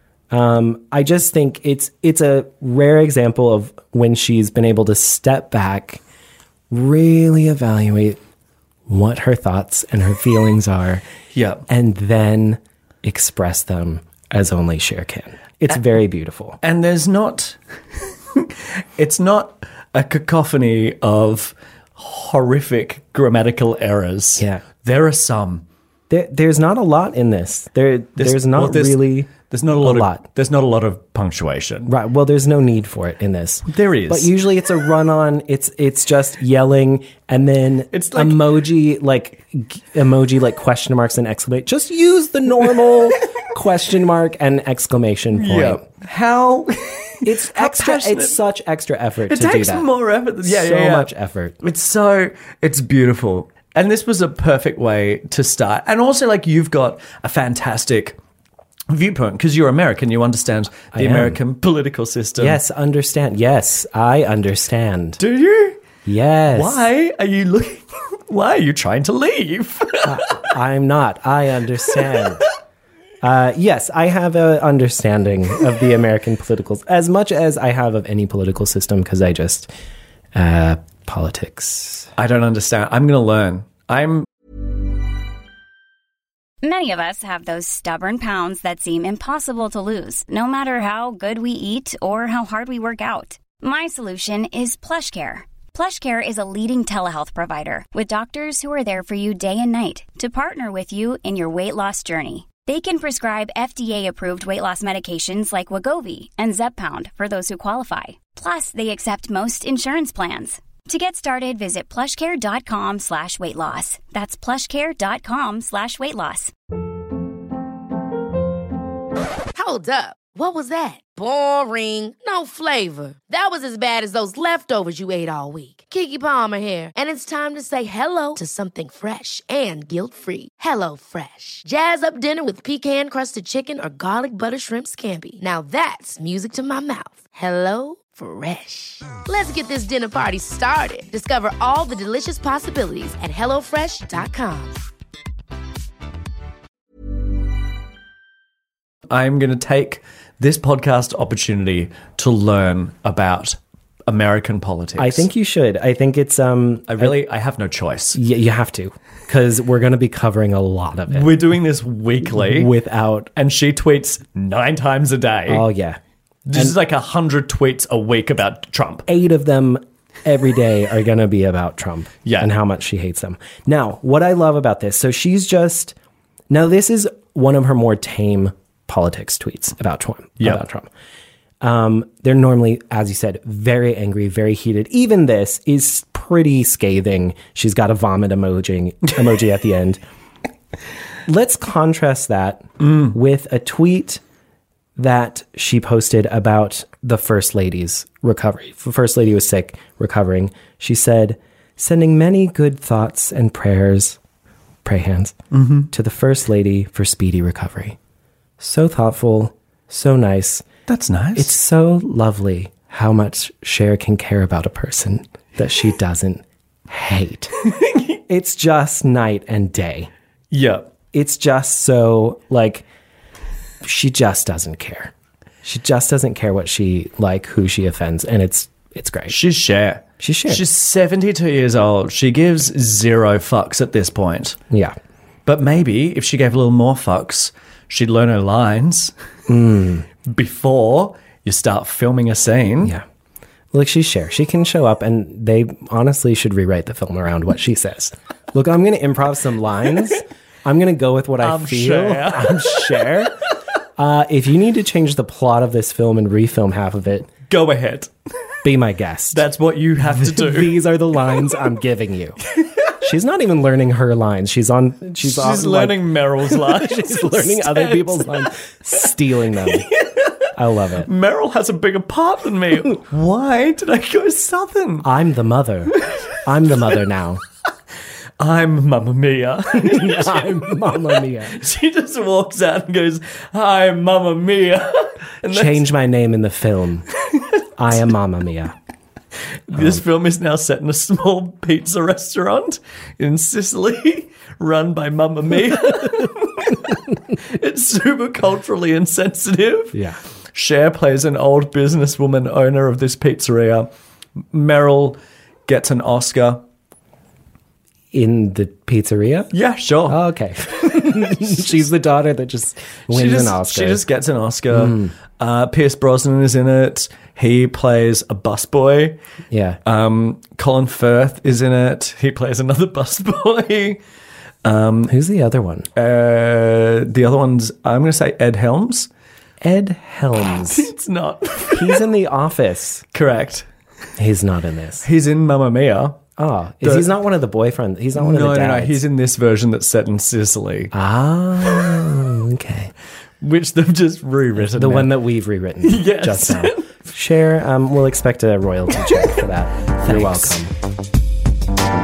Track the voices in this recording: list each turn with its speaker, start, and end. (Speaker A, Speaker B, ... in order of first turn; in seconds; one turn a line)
Speaker A: 0.3-6.0
Speaker A: 6.7-8.2
Speaker A: 8.9-11.0
Speaker B: 11.3-11.6
Speaker A: 11.7-16.6
Speaker B: 16.6-17.6
Speaker B: 18.4-25.6
Speaker A: 24.4-24.6
Speaker A: 26.1-30.2
Speaker B: 28.2-31.9
Speaker A: 31.9-45.8
Speaker B: 33.7-34.3
Speaker B: 37.9-38.5
Speaker B: 45.3-48.4
Speaker A: 47.2-49.9
Speaker B: 49.3-51.1
Speaker A: 50.4-51.6
Speaker B: 51.6-58.2
Speaker B: 58.9-62.6
Speaker A: 60.9-61.4
Speaker A: 62.4-65.2
Speaker B: 65.2-65.8
Speaker A: 66.0-66.8
Speaker B: 66.5-70.5
Speaker A: 70.0-72.5
Speaker A: 73.2-79.7
Speaker A: 80.3-82.1
Speaker B: 82.2-84.3
Speaker C: 86.6-116.5
Speaker D: 119.5-144.8
Speaker B: 149.1-155.2
Speaker A: 155.0-157.2
Speaker B: 156.9-158.2
Speaker A: 158.1-161.5
Speaker B: 161.1-162.7
Speaker A: 162.2-163.3
Speaker B: 163.4-165.7
Speaker A: 165.5-166.0
Speaker B: 166.5-169.1
Speaker A: 169.1-175.9
Speaker B: 172.2-172.5
Speaker A: 176.5-180.9
Speaker A: 181.6-190.0
Speaker A: 191.2-194.2
Speaker A: 195.0-204.2
Speaker A: 204.8-205.4
Speaker B: 205.5-205.9
Speaker A: 205.9-208.0
Speaker A: 208.6-210.7
Speaker B: 210.9-211.5
Speaker A: 211.3-217.5
Speaker B: 217.8-218.1
Speaker A: 218.3-220.1
Speaker B: 220.5-220.9
Speaker A: 221.1-222.9
Speaker A: 223.8-225.1
Speaker A: 225.6-229.4
Speaker B: 229.3-234.6
Speaker A: 230.2-230.6
Speaker A: 234.7-235.0
Speaker B: 235.5-239.1
Speaker A: 239.5-240.1
Speaker B: 240.3-243.0
Speaker A: 243.7-253.3
Speaker B: 251.4-253.1
Speaker A: 254.0-257.3
Speaker B: 257.5-258.1
Speaker A: 258.6-259.4
Speaker B: 259.3-260.8
Speaker A: 260.0-262.4
Speaker B: 262.6-262.9
Speaker A: 263.0-269.9
Speaker B: 265.2-268.5
Speaker B: 269.6-275.1
Speaker A: 270.6-271.1
Speaker A: 275.0-277.4
Speaker B: 278.4-285.9
Speaker A: 279.7-281.6
Speaker A: 285.5-287.1
Speaker A: 287.8-288.8
Speaker B: 289.7-300.0
Speaker A: 289.7-290.0
Speaker A: 299.9-300.2
Speaker B: 300.5-303.9
Speaker B: 304.5-306.6
Speaker A: 308.1-309.5
Speaker B: 309.5-310.2
Speaker A: 310.1-314.0
Speaker B: 313.1-319.2
Speaker A: 314.7-315.1
Speaker A: 319.5-319.8
Speaker B: 319.9-324.0
Speaker B: 324.6-325.1
Speaker A: 325.1-325.9
Speaker B: 326.0-329.1
Speaker A: 329.6-330.9
Speaker B: 330.5-332.1
Speaker A: 331.7-333.1
Speaker B: 333.1-333.7
Speaker A: 334.2-335.1
Speaker B: 335.0-336.2
Speaker A: 336.4-339.0
Speaker B: 336.8-337.1
Speaker B: 338.1-340.9
Speaker A: 340.9-342.9
Speaker B: 343.4-345.1
Speaker A: 344.6-350.7
Speaker B: 345.8-346.9
Speaker B: 350.0-350.6